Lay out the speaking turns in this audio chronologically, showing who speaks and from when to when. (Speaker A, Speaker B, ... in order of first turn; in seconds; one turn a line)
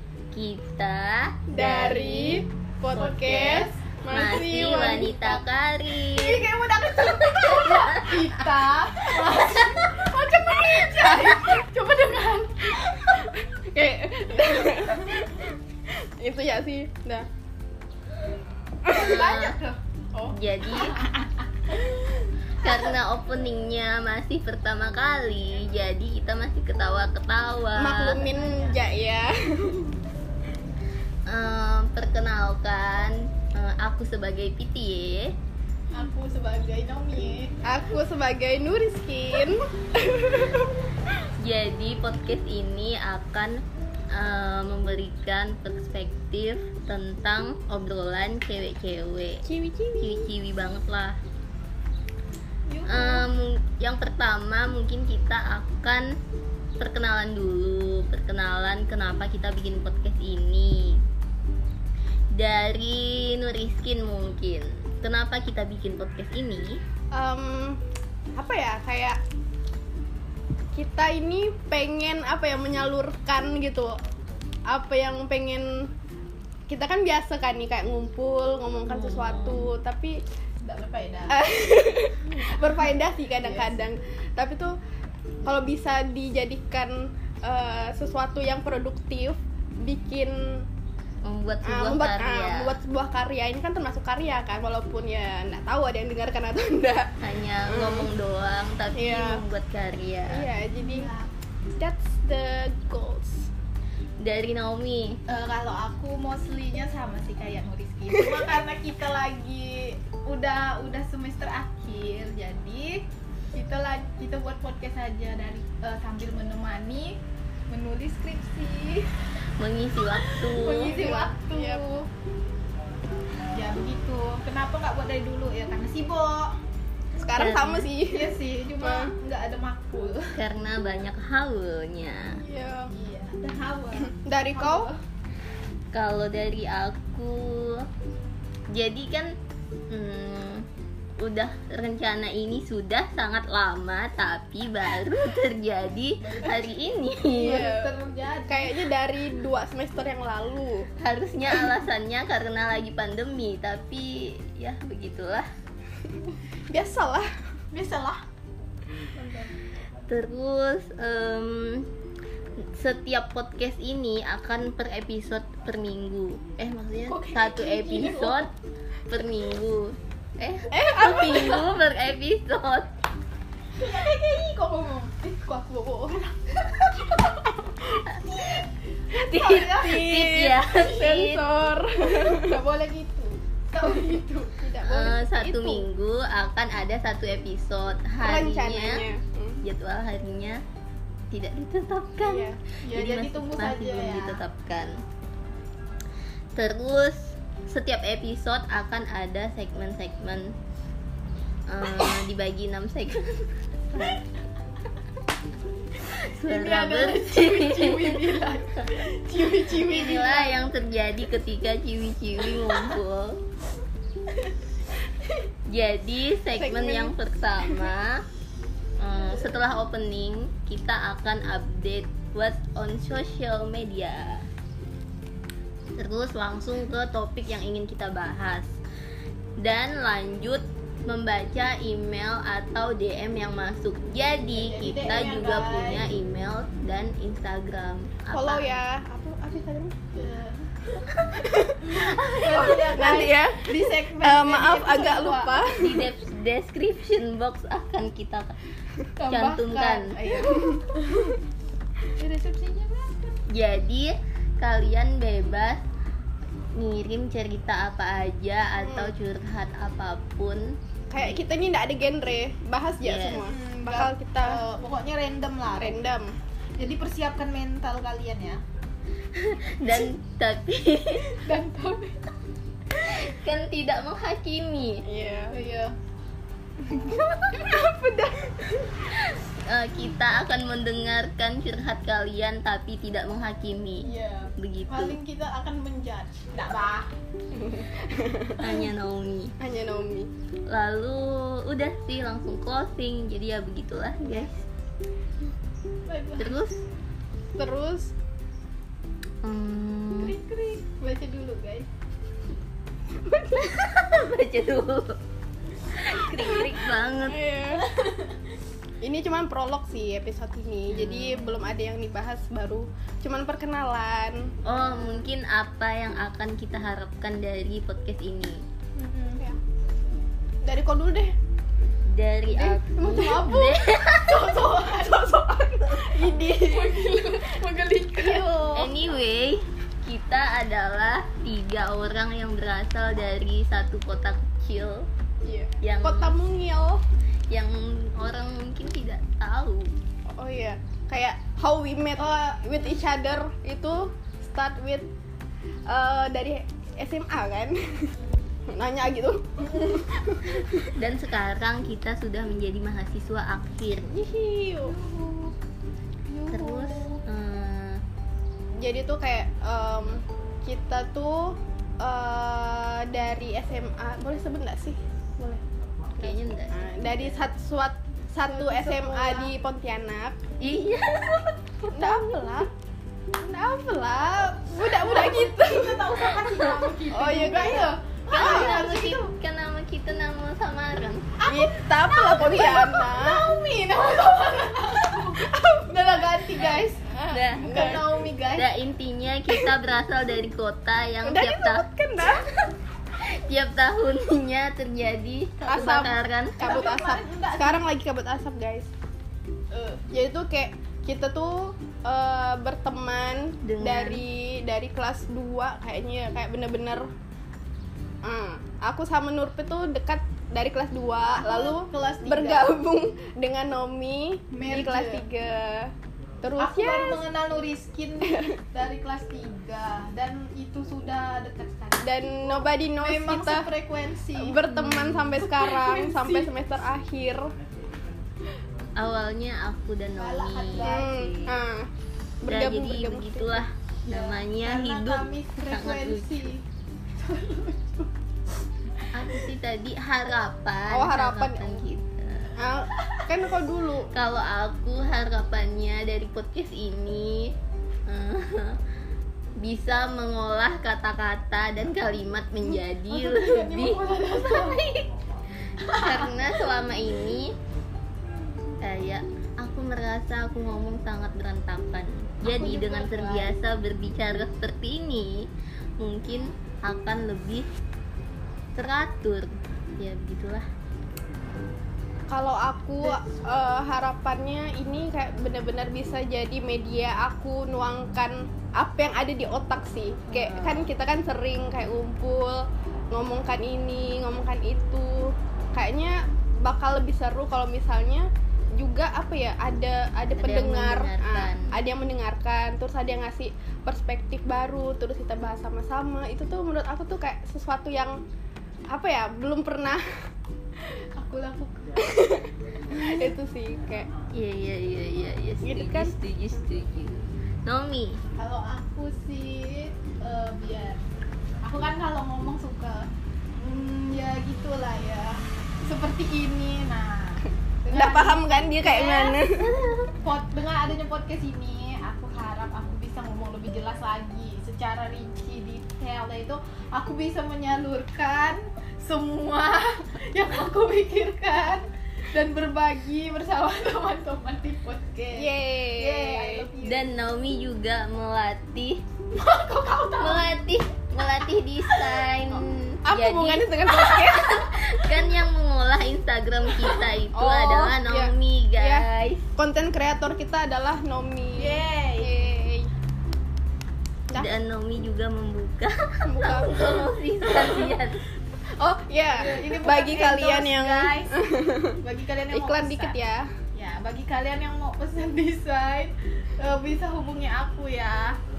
Speaker A: 0.3-2.4
Speaker B: 1.5-5.4
Speaker C: 2.9-3.8
Speaker A: 4.1-6.5
Speaker C: 6.1-12.9
Speaker A: 7.0-8.1
Speaker B: 11.0-11.3
Speaker B: 13.3-15.6
Speaker B: 16.2-17.3
Speaker A: 18.9-19.6
Speaker C: 18.9-19.8
Speaker A: 20.3-21.0
Speaker C: 20.7-21.3
Speaker A: 22.6-28.3
Speaker B: 27.7-29.9
Speaker C: 28.2-28.8
Speaker A: 31.3-35.3
Speaker C: 35.9-37.5
Speaker B: 37.6-40.7
Speaker A: 41.4-43.5
Speaker A: 44.1-49.4
Speaker B: 49.4-50.3
Speaker A: 50.0-51.2
Speaker C: 52.7-53.3
Speaker A: 52.9-56.1
Speaker A: 56.8-61.0
Speaker A: 62.3-66.8
Speaker B: 67.1-67.8
Speaker B: 68.3-69.2
Speaker B: 70.7-73.9
Speaker B: 74.7-75.9
Speaker B: 76.7-80.2
Speaker A: 78.9-79.7
Speaker C: 80.6-81.4
Speaker B: 81.3-84.7
Speaker C: 83.4-83.8
Speaker B: 85.4-90.7
Speaker A: 91.2-92.8
Speaker B: 91.6-97.1
Speaker A: 97.2-100.5
Speaker B: 97.7-98.1
Speaker B: 98.9-99.4
Speaker B: 100.3-101.1
Speaker C: 100.8-101.3
Speaker B: 101.7-103.5
Speaker A: 104.2-105.2
Speaker C: 105.3-117.2
Speaker C: 117.7-119.1
Speaker A: 119.6-121.1
Speaker C: 120.4-122.1
Speaker B: 120.9-121.8
Speaker C: 123.5-126.5
Speaker B: 127.2-129.1
Speaker A: 127.3-127.9
Speaker C: 128.1-130.3
Speaker A: 130.3-132.4
Speaker B: 132.4-132.9
Speaker C: 132.9-135.0
Speaker B: 134.1-134.9
Speaker A: 135.9-137.8
Speaker A: 138.7-139.3
Speaker A: 139.9-140.7
Speaker A: 141.2-147.7
Speaker C: 146.2-146.7
Speaker C: 147.3-148.8
Speaker B: 147.4-147.9
Speaker B: 148.5-150.9
Speaker A: 151.0-155.5
Speaker B: 156.7-157.3
Speaker C: 157.7-158.2
Speaker C: 159.2-159.5
Speaker A: 160.1-161.9
Speaker A: 162.7-168.5
Speaker C: 167.0-168.4
Speaker A: 169.1-172.9
Speaker B: 170.7-171.6
Speaker C: 173.8-177.5
Speaker C: 178.0-180.1
Speaker A: 179.2-181.5
Speaker B: 179.8-182.6
Speaker C: 182.0-184.6
Speaker B: 184.6-185.9
Speaker A: 184.8-189.0
Speaker B: 188.2-189.6
Speaker A: 189.6-190.6
Speaker A: 191.3-194.9
Speaker B: 192.2-192.6
Speaker C: 192.8-194.4
Speaker A: 196.6-200.5
Speaker A: 201.7-204.2
Speaker A: 206.0-208.5
Speaker C: 206.4-210.7
Speaker A: 209.7-213.4
Speaker C: 212.5-212.9
Speaker A: 215.7-218.2
Speaker B: 216.5-217.9
Speaker A: 219.0-224.4
Speaker A: 226.0-228.8
Speaker A: 229.6-238.8
Speaker C: 234.5-236.1
Speaker B: 238.3-239.9
Speaker C: 240.1-240.6
Speaker B: 241.4-246.1
Speaker C: 241.8-245.6
Speaker A: 245.7-248.6
Speaker C: 249.2-251.0
Speaker A: 249.3-250.2
Speaker C: 252.2-253.4
Speaker A: 253.5-255.8
Speaker A: 256.7-261.4
Speaker B: 258.8-259.1
Speaker B: 261.1-264.6
Speaker A: 263.0-263.5
Speaker C: 263.5-266.0
Speaker B: 265.8-266.3
Speaker C: 266.8-268.6
Speaker A: 269.3-271.4
Speaker C: 271.3-272.2
Speaker A: 273.0-275.0
Speaker B: 275.1-275.6
Speaker C: 275.5-275.9
Speaker B: 277.6-278.9
Speaker A: 279.6-285.2
Speaker C: 284.0-287.1
Speaker B: 287.5-288.9
Speaker A: 288.6-289.5
Speaker B: 289.6-290.3
Speaker A: 290.7-294.6
Speaker C: 296.1-296.6
Speaker A: 296.4-296.8
Speaker B: 297.6-298.1
Speaker A: 299.4-300.3
Speaker C: 300.2-301.9
Speaker B: 303.3-303.8
Speaker A: 303.6-305.2
Speaker A: 305.9-307.4
Speaker B: 306.4-306.6
Speaker B: 307.2-308.0
Speaker C: 307.8-308.3
Speaker B: 309.0-314.5
Speaker A: 310.9-311.6
Speaker A: 314.6-318.6
Speaker C: 318.9-319.4
Speaker B: 320.6-321.3
Speaker A: 322.1-324.5
Speaker C: 322.5-328.5
Speaker B: 325.9-327.1
Speaker B: 328.1-328.9
Speaker A: 328.7-335.1
Speaker B: 335.4-337.0
Speaker A: 335.8-336.4
Speaker A: 337.5-339.9
Speaker B: 340.4-345.1
Speaker C: 342.2-342.7
Speaker B: 345.9-348.1
Speaker B: 348.7-350.8
Speaker A: 351.0-354.1
Speaker B: 354.1-354.9
Speaker C: 354.9-355.5
Speaker C: 356.3-357.2
Speaker A: 356.5-358.0
Speaker B: 358.8-365.6
Speaker A: 366.2-366.9
Speaker B: 366.7-370.4
Speaker C: 368.4-369.5
Speaker A: 370.6-372.6
Speaker B: 371.9-372.7
Speaker B: 373.4-376.4
Speaker C: 374.8-379.3
Speaker B: 377.1-378.8
Speaker A: 378.3-381.3
Speaker C: 381.4-388.7
Speaker B: 381.4-383.5
Speaker B: 385.5-385.8
Speaker B: 387.1-388.3
Speaker A: 387.3-387.7
Speaker A: 388.5-391.9
Speaker B: 391.2-392.4
Speaker A: 393.2-396.6
Speaker B: 395.7-398.9
Speaker C: 396.6-397.9
Speaker C: 399.7-400.0
Speaker B: 400.1-407.1
Speaker A: 403.6-404.2
Speaker B: 408.2-417.2
Speaker C: 411.4-412.7
Speaker C: 414.5-415.2
Speaker C: 416.6-424.7
Speaker B: 422.0-423.7
Speaker B: 424.4-427.5
Speaker A: 424.7-425.4
Speaker C: 425.4-426.5
Speaker A: 429.0-431.6
Speaker C: 430.1-431.2
Speaker B: 430.8-431.9
Speaker B: 432.4-433.6
Speaker A: 432.5-436.4
Speaker C: 434.1-438.1
Speaker A: 439.1-442.6
Speaker B: 440.9-441.8
Speaker B: 442.6-444.1
Speaker C: 443.0-443.3
Speaker A: 444.1-447.5
Speaker A: 448.1-448.8
Speaker A: 449.6-455.1
Speaker C: 453.1-454.8
Speaker C: 455.8-456.8
Speaker A: 455.9-457.5
Speaker A: 458.8-465.5
Speaker C: 462.4-463.5
Speaker A: 466.0-467.7
Speaker A: 468.8-470.6
Speaker B: 472.3-498.2
Speaker A: 480.3-480.9
Speaker A: 490.3-491.7
Speaker B: 498.9-500.0
Speaker C: 501.1-502.1
Speaker B: 502.1-502.4
Speaker C: 502.9-503.3
Speaker B: 503.0-504.1
Speaker A: 504.3-508.2
Speaker B: 505.6-506.1
Speaker C: 508.4-511.0
Speaker C: 511.6-519.4
Speaker B: 517.9-519.7
Speaker A: 519.6-520.1
Speaker C: 520.2-537.1
Speaker B: 535.3-536.7
Speaker A: 536.8-539.0
Speaker C: 539.3-540.5
Speaker A: 540.2-549.5
Speaker B: 543.0-544.6
Speaker B: 547.3-549.0
Speaker B: 549.6-552.9
Speaker C: 551.5-552.3
Speaker A: 554.3-558.2
Speaker B: 556.2-557.9
Speaker B: 558.8-562.0
Speaker C: 559.3-561.3
Speaker C: 562.0-563.2
Speaker B: 562.5-563.5
Speaker C: 563.7-568.4